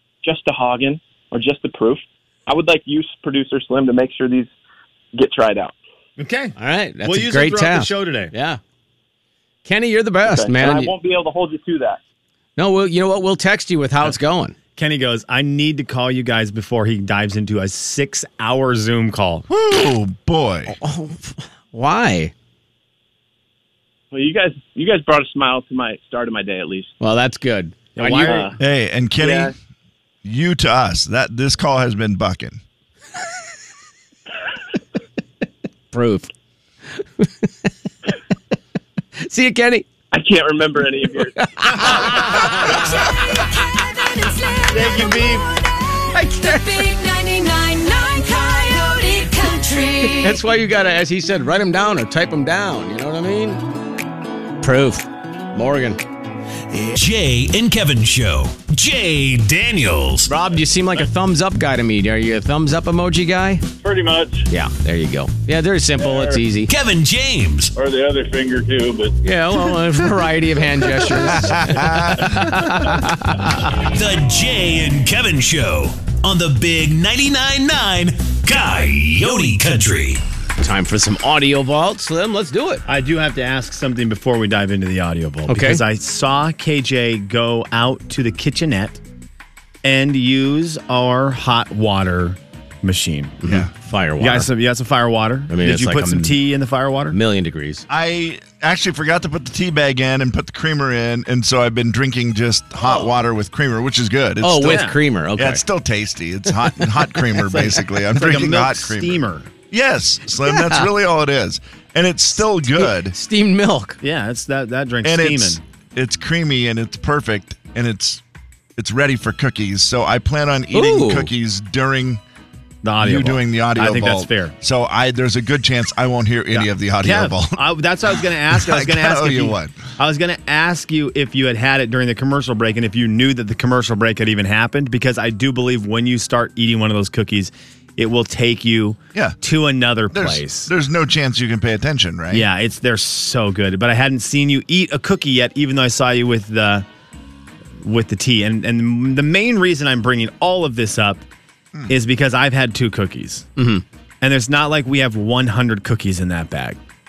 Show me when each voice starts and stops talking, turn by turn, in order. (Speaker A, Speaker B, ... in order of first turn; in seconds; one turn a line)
Speaker A: 0.2-4.5
Speaker A: 5.1-5.7
Speaker B: 6.2-8.3
Speaker C: 6.6-8.6
Speaker C: 9.6-10.9
Speaker A: 10.2-12.0
Speaker C: 12.6-14.5
Speaker B: 14.8-19.4
Speaker D: 19.5-20.8
Speaker C: 20.7-22.3
Speaker A: 24.1-26.9
Speaker C: 27.0-28.5
Speaker B: 27.9-28.5
Speaker A: 28.2-28.6
Speaker D: 28.6-29.5
Speaker A: 29.2-29.5
Speaker D: 30.2-32.6
Speaker C: 35.9-36.3
Speaker C: 37.0-37.5
Speaker C: 39.2-39.9
Speaker A: 40.1-41.3
Speaker C: 41.4-42.9
Speaker E: 44.0-50.4
Speaker B: 44.7-45.5
Speaker C: 46.1-46.9
Speaker C: 50.0-53.6
Speaker C: 54.6-56.0
Speaker F: 56.7-60.3
Speaker C: 60.3-63.6
Speaker G: 63.8-64.4
Speaker C: 64.5-66.7
Speaker G: 66.0-66.4
Speaker F: 66.7-67.7
Speaker G: 67.7-69.1
Speaker C: 69.2-73.7
Speaker D: 71.4-72.5
Speaker F: 73.8-80.2
Speaker C: 80.6-82.8
Speaker B: 82.8-89.0
Speaker C: 85.5-85.8
Speaker B: 89.8-93.4
Speaker C: 93.4-94.5
Speaker D: 93.4-93.7
Speaker B: 94.2-97.2
Speaker C: 95.5-96.4
Speaker C: 97.1-97.8
Speaker D: 97.9-113.2
Speaker C: 104.4-105.6
Speaker B: 104.6-105.0
Speaker B: 107.3-109.5
Speaker C: 110.5-110.8
Speaker C: 112.7-114.0
Speaker B: 114.0-115.6
Speaker D: 115.0-118.2
Speaker D: 118.8-122.2
Speaker C: 120.7-121.3
Speaker B: 122.8-124.5
Speaker D: 123.0-127.6
Speaker B: 126.5-140.7
Speaker D: 128.5-129.8
Speaker D: 140.1-142.5
Speaker B: 142.3-146.8
Speaker B: 147.8-151.2
Speaker B: 151.9-153.5
Speaker C: 153.6-153.8
Speaker B: 154.2-156.8